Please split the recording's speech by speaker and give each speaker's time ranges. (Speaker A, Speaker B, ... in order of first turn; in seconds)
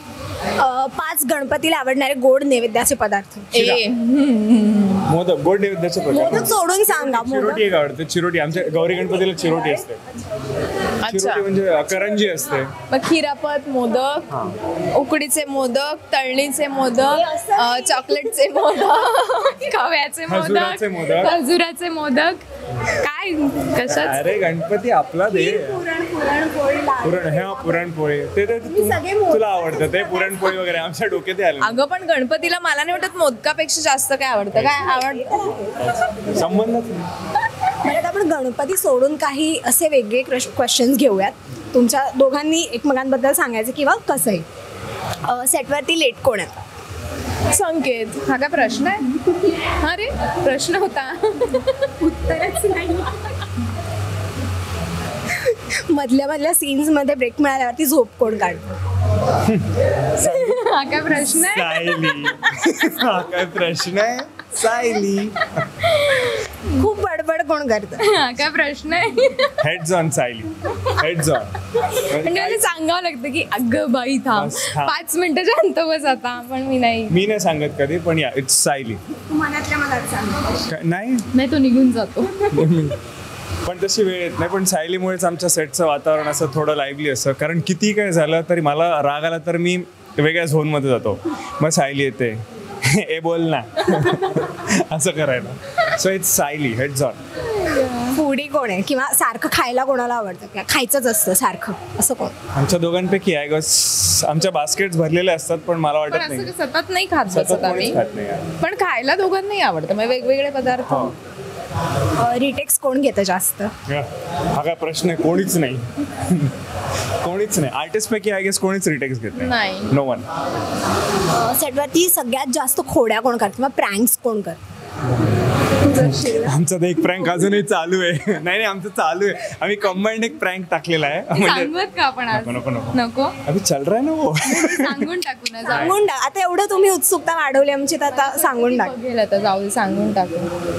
Speaker A: 0.6-3.5, 6.1-7.7, 9.5-9.8, 17.0-18.4, 25.2-27.9, 28.6-30.6, 34.8-36.4, 37.8-44.5, 45.2-46.6, 52.0-53.1, 55.3-58.7, 66.8-68.0, 79.2-80.7, 98.1-102.3, 112.2-113.7, 121.3-124.6, 125.9-126.3, 135.7-138.9
Speaker B: 3.5-5.1, 11.0-11.4, 12.9-14.2, 14.9-24.3, 31.6-35.6, 47.5-52.0, 60.1-62.3, 65.8-66.9, 68.0-69.6, 71.9-77.1, 81.3-82.7, 97.5-98.2, 106.1-108.0, 108.6-111.1, 119.3-119.9, 125.9-126.5, 131.3-133.3, 134.4-136.0, 138.1-140.5
Speaker C: 3.5-3.8, 5.0-10.0, 11.1-12.7, 20.3-21.3, 23.8-25.8, 27.0-31.8, 34.5-34.8, 36.2-37.0, 59.4-65.7, 69.6-72.6, 74.3-75.0, 77.1-79.0, 80.7-81.2, 82.5-83.0, 83.6-97.2, 102.5-106.5, 107.3-108.5, 110.9-111.1, 113.9-116.5, 117.2-120.3, 125.9-131.7, 132.3-135.1, 135.7-135.9